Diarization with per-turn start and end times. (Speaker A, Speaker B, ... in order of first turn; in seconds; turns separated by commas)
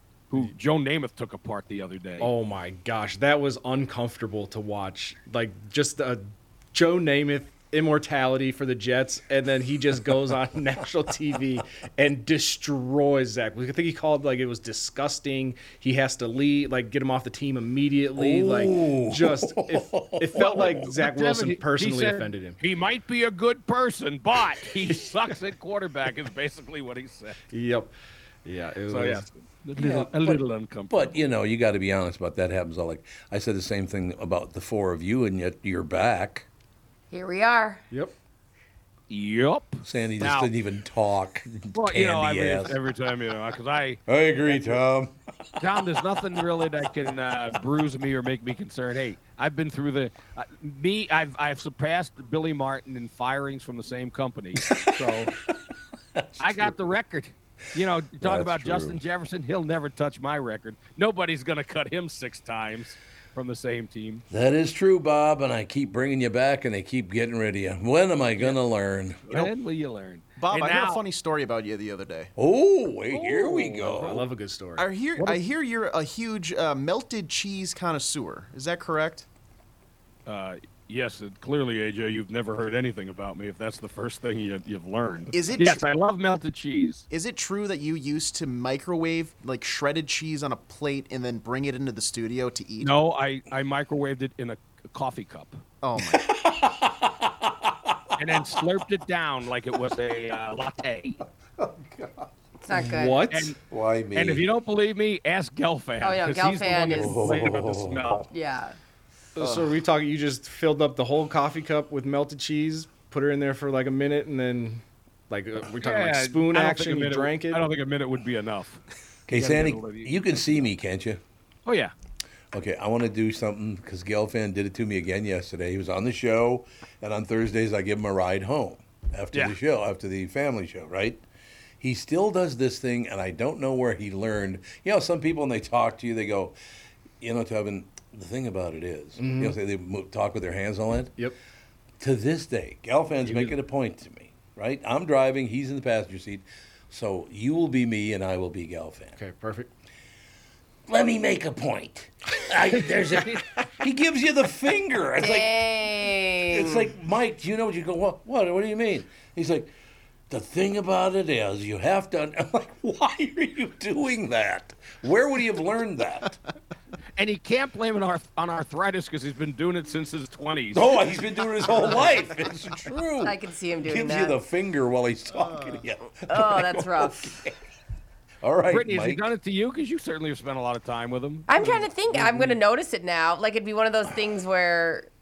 Speaker A: 0.3-2.3, Speaker B: 2.2-22.6, Speaker C: 18.2-20.9, Speaker A: 20.4-27.4, Speaker B: 27.5-27.9, Speaker B: 28.4-29.3, Speaker A: 28.9-31.2, Speaker C: 29.8-36.5, Speaker D: 37.1-37.8, Speaker A: 39.1-40.5, Speaker C: 39.9-42.8, Speaker A: 41.7-44.8, Speaker C: 44.1-45.7, Speaker A: 45.6-55.3, Speaker C: 54.6-55.3, Speaker C: 56.1-56.9, Speaker A: 56.4-64.2, Speaker C: 58.2-59.0, Speaker C: 64.3-69.5, Speaker A: 69.3-71.0, Speaker E: 70.4-72.3, Speaker C: 72.4-74.2, Speaker A: 73.1-74.2, Speaker B: 73.9-74.9, Speaker E: 74.8-79.3, Speaker A: 80.3-87.0, Speaker E: 85.3-85.9, Speaker E: 87.1-92.9, Speaker A: 92.8-95.6, Speaker E: 95.8-96.3, Speaker C: 96.3-98.6, Speaker A: 98.2-101.2, Speaker C: 101.6-102.3, Speaker D: 102.6-103.2, Speaker B: 102.7-103.5, Speaker A: 103.3-103.6, Speaker C: 103.7-104.5, Speaker A: 104.2-108.2, Speaker D: 106.0-107.6, Speaker C: 106.9-108.3, Speaker D: 108.3-108.8, Speaker B: 109.4-117.6, Speaker A: 115.8-120.2, Speaker C: 119.3-121.2, Speaker A: 121.7-121.9, Speaker C: 122.5-131.2, Speaker C: 131.8-136.6, Speaker C: 137.2-141.2, Speaker B: 139.2-139.6, Speaker C: 142.0-149.2, Speaker B: 143.2-143.5, Speaker B: 149.2-149.7, Speaker C: 150.9-155.6, Speaker D: 155.2-156.9, Speaker C: 156.5-159.7, Speaker C: 160.3-166.4, Speaker A: 167.2-170.9, Speaker C: 170.7-177.6, Speaker D: 173.2-174.4, Speaker D: 176.3-177.4, Speaker C: 178.4-179.3, Speaker A: 178.7-181.5, Speaker D: 181.5-185.1, Speaker B: 182.1-182.5